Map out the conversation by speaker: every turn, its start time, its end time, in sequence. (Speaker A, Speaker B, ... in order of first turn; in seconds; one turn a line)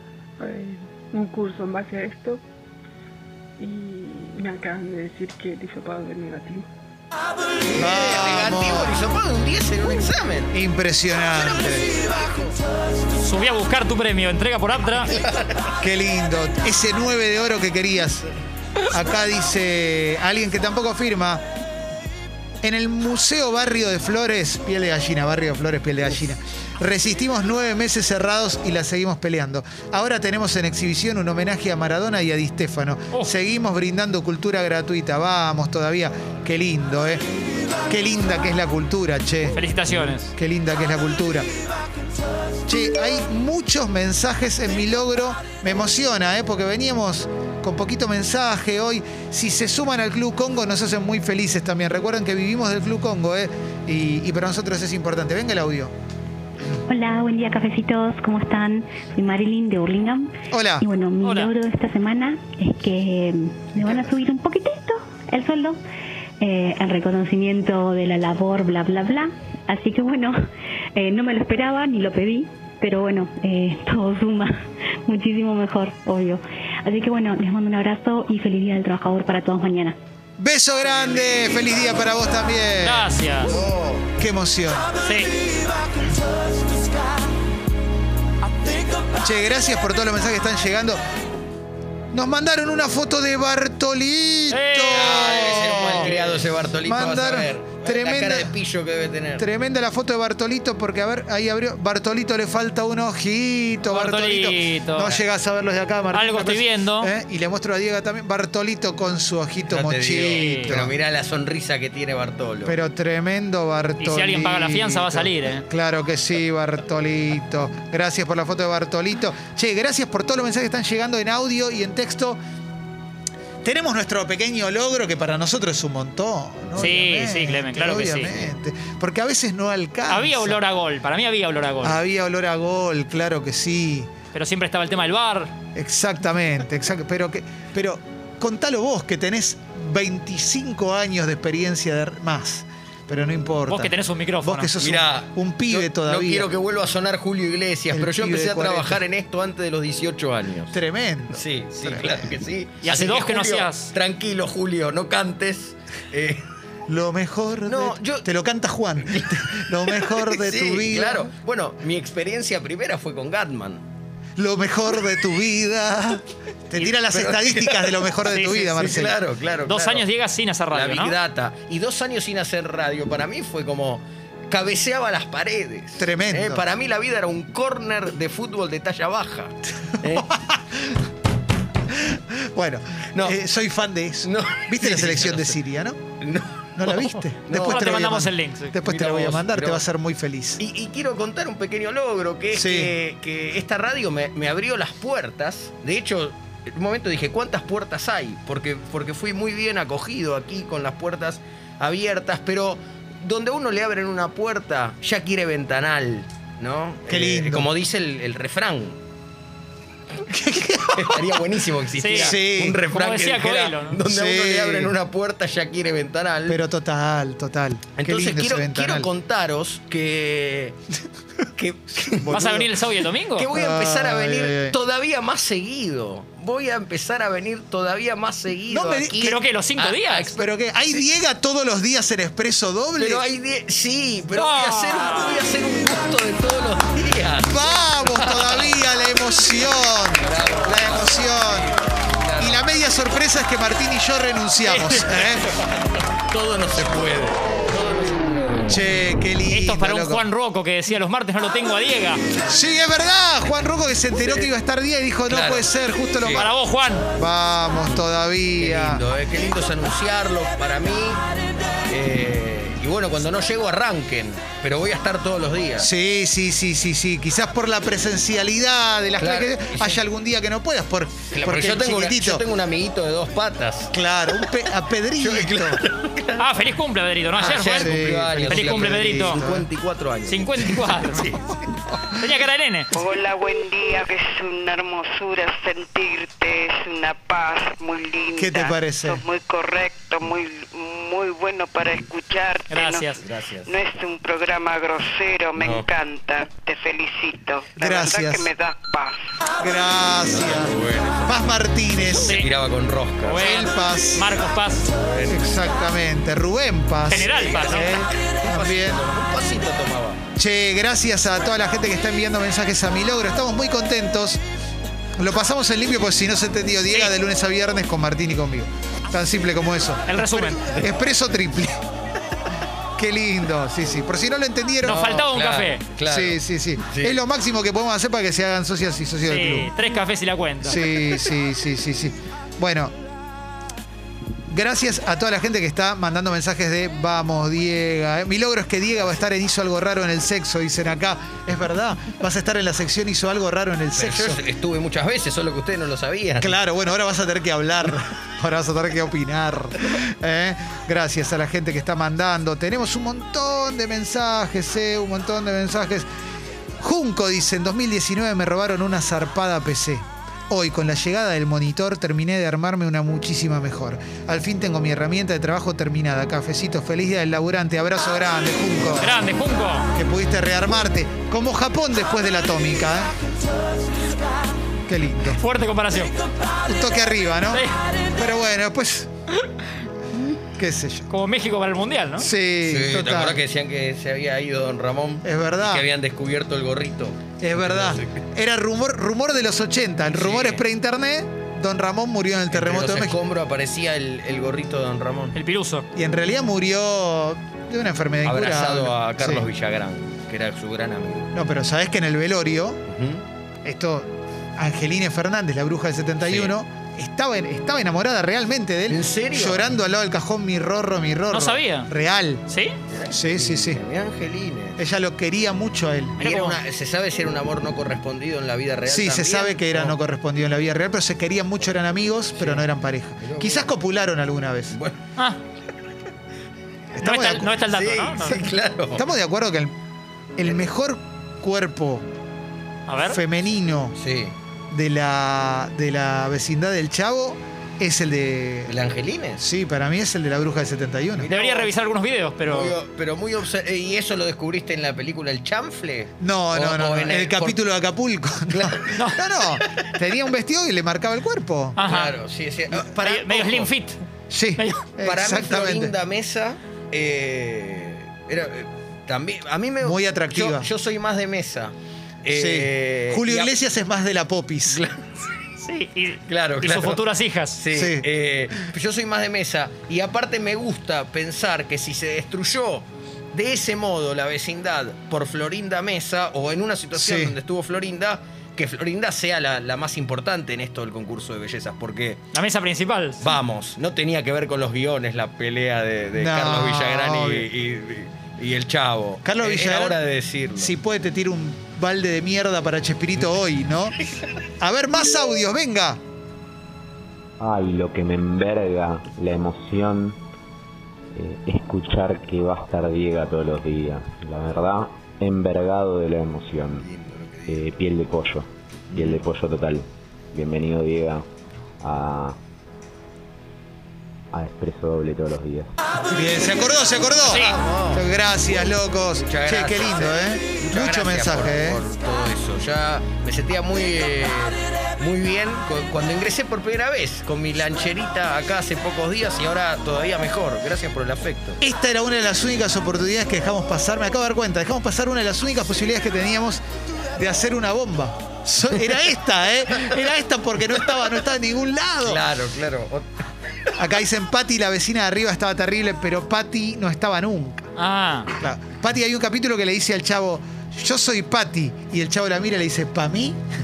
Speaker A: 0.4-2.4
Speaker A: 3.6-6.7
Speaker B: 7.7-10.6
Speaker C: 7.8-9.0
Speaker C: 10.5-11.8
Speaker B: 11.3-12.6
Speaker D: 13.2-15.1
Speaker B: 14.9-15.7
Speaker C: 15.8-18.3
Speaker C: 18.9-21.4
Speaker C: 22.6-37.2
Speaker C: 37.9-41.5
Speaker D: 39.6-40.3
Speaker C: 42.7-55.9
Speaker E: 56.9-65.8
Speaker C: 60.5-60.9
Speaker D: 61.2-61.5
Speaker E: 66.4-70.4
Speaker E: 71.0-80.0
Speaker C: 80.4-83.1
Speaker D: 82.8-83.5
Speaker B: 83.4-84.1
Speaker C: 84.2-84.9
Speaker D: 85.0-85.3
Speaker C: 89.2-91.0
Speaker C: 92.1-98.5
Speaker D: 94.5-96.1
Speaker B: 94.9-99.5
Speaker C: 99.4-110.9
Speaker D: 103.9-105.2
Speaker D: 106.1-107.1
Speaker B: 109.7-112.8
Speaker D: 110.3-110.7
Speaker C: 112.7-122.4
Speaker D: 114.0-115.7
Speaker C: 123.6-130.6
Speaker D: 126.8-128.3
Speaker D: 130.1-132.0
Speaker C: 131.8-134.1
Speaker D: 134.3-135.5
Speaker C: 135.8-146.5
Speaker D: 143.7-144.7
Speaker B: 144.8-150.8
Speaker C: 147.9-149.0
Speaker C: 150.7-152.3
Speaker B: 151.3-156.4
Speaker D: 152.8-153.9
Speaker C: 156.9-161.3
Speaker B: 157.7-158.3
Speaker B: 159.0-163.8
Speaker C: 164.4-169.2
Speaker B: 166.8-170.1
Speaker D: 168.3-168.8
Speaker D: 169.7-171.2
Speaker B: 170.7-180.3
Speaker C: 176.0-176.6
Speaker C: 180.1-181.0
Speaker C: 181.9-186.0
Speaker B: 183.1-183.4
Speaker B: 184.2-185.6
Speaker B: 186.2-188.0
Speaker C: 186.8-190.6
Speaker D: 187.5-188.7
Speaker B: 188.8-189.8
Speaker B: 190.6-209.0
Speaker C: 192.5-192.9
Speaker C: 207.1-207.7
Speaker C: 210.3-211.3
Speaker B: 210.9-216.6
Speaker D: 212.0-212.4
Speaker C: 212.2-212.8
Speaker D: 212.9-214.0
Speaker C: 214.1-214.9
Speaker C: 216.5-219.1
Speaker B: 218.0-220.8
Speaker B: 221.6-222.6
Speaker C: 222.2-222.7
Speaker D: 222.3-223.5
Speaker B: 223.3-230.5
Speaker C: 223.5-224.8
Speaker C: 228.7-229.2
Speaker D: 229.1-230.3
Speaker C: 230.4-233.2
Speaker B: 232.9-238.8
Speaker D: 234.3-235.4
Speaker C: 237.5-241.7
Speaker B: 240.2-242.7
Speaker C: 242.4-245.5
Speaker B: 244.7-248.6
Speaker C: 248.7-250.2
Speaker D: 249.5-252.2
Speaker C: 252.5-256.5
Speaker B: 254.2-254.5
Speaker B: 255.3-256.5
Speaker D: 256.3-257.1
Speaker C: 257.2-259.0
Speaker B: 258.6-261.2
Speaker B: 261.9-265.9
Speaker C: 265.8-272.4
Speaker B: 269.2-270.0
Speaker B: 271.3-273.9
Speaker C: 273.9-275.8
Speaker B: 275.1-276.5
Speaker D: 276.4-279.4
Speaker B: 277.4-281.6
Speaker C: 277.8-279.6
Speaker D: 280.3-281.3
Speaker D: 282.1-282.9
Speaker F: 282.9-299.3
Speaker C: 288.4-289.2
Speaker D: 292.7-293.2
Speaker B: 293.2-293.7
Speaker B: 295.6-295.9
Speaker C: 297.8-298.5
Speaker C: 299.6-302.4
Speaker B: 300.2-303.5
Speaker D: 302.2-302.5
Speaker D: 303.2-304.9
Speaker C: 303.4-304.2
Speaker B: 304.9-305.5
Speaker C: 305.3-309.0
Speaker D: 307.1-308.1
Speaker B: 307.1-310.2
Speaker C: 310.4-314.4
Speaker C: 315.2-321.8
Speaker D: 320.1-320.6
Speaker C: 323.0-325.2
Speaker D: 324.8-325.8
Speaker B: 324.9-327.2
Speaker C: 326.1-329.7
Speaker D: 329.3-330.9
Speaker C: 330.6-332.9
Speaker C: 334.5-344.4
Speaker B: 343.9-346.6
Speaker C: 346.4-356.1
Speaker C: 356.8-369.2
Speaker D: 369.0-369.9
Speaker C: 369.9-373.1
Speaker C: 374.9-375.4
Speaker D: 375.4-376.1
Speaker C: 376.7-377.6
Speaker C: 378.2-379.1
Speaker C: 380.6-381.1
Speaker D: 381.1-382.3
Speaker C: 382.2-383.4
Speaker B: 382.6-388.2
Speaker C: 385.2-385.8
Speaker C: 387.4-393.1
Speaker B: 390.1-390.6
Speaker B: 392.5-395.4
Speaker D: 395.4-395.9
Speaker C: 395.9-399.5
Speaker B: 398.2-401.3
Speaker C: 401.3-402.8
Speaker B: 402.9-403.2
Speaker C: 403.6-412.4
Speaker B: 406.2-406.5
Speaker B: 408.9-409.8
Speaker D: 411.3-411.9
Speaker D: 412.5-412.8
Speaker B: 412.9-414.8
Speaker C: 413.1-413.8
Speaker C: 414.8-416.2
Speaker D: 416.2-416.6
Speaker B: 416.2-420.0
Speaker C: 418.9-424.8
Speaker B: 422.4-422.7
Speaker B: 423.2-423.7
Speaker B: 424.7-425.0
Speaker C: 427.0-427.5
Speaker D: 427.0-428.4
Speaker B: 427.6-429.0
Speaker C: 428.9-429.7
Speaker C: 430.4-432.1
Speaker D: 432.9-433.2
Speaker C: 433.1-434.0
Speaker B: 434.0-434.3
Speaker C: 434.7-438.7
Speaker B: 438.7-439.4
Speaker C: 439.4-441.3
Speaker B: 441.2-441.7
Speaker D: 441.3-442.8
Speaker B: 442.4-447.6
Speaker C: 446.2-451.8
Speaker B: 448.5-449.1
Speaker D: 448.9-449.2
Speaker D: 451.8-452.2
Speaker B: 451.8-453.7
Speaker D: 452.9-454.0
Speaker C: 454.3-455.9
Speaker D: 454.6-454.8
Speaker B: 455.0-461.7
Speaker C: 459.8-460.7
Speaker B: 462.2-463.5
Speaker C: 462.3-464.8
Speaker B: 464.7-465.0
Speaker D: 465.6-467.6
Speaker B: 466.3-467.0
Speaker B: 467.6-482.2
Speaker C: 467.7-468.1
Speaker C: 476.9-477.3
Speaker D: 482.3-483.3
Speaker B: 483.2-490.7
Speaker C: 486.2-487.5
Speaker C: 489.2-490.0
Speaker C: 490.6-494.0
Speaker C: 494.6-496.0
Speaker G: 497.4-500.2
Speaker G: 501.1-506.9
Speaker B: 506.8-507.6
Speaker G: 507.5-511.2
Speaker B: 508.9-509.2
Speaker G: 511.8-512.4
Speaker G: 514.3-515.7
Speaker C: 516.1-521.8
Speaker B: 517.2-518.0
Speaker D: 517.3-517.6
Speaker B: 519.2-531.6
Speaker C: 531.6-536.6
Speaker C: 537.2-542.2
Speaker B: 542.0-543.1
Speaker C: 543.8-547.7
Speaker D: 547.8-548.3
Speaker C: 548.4-553.4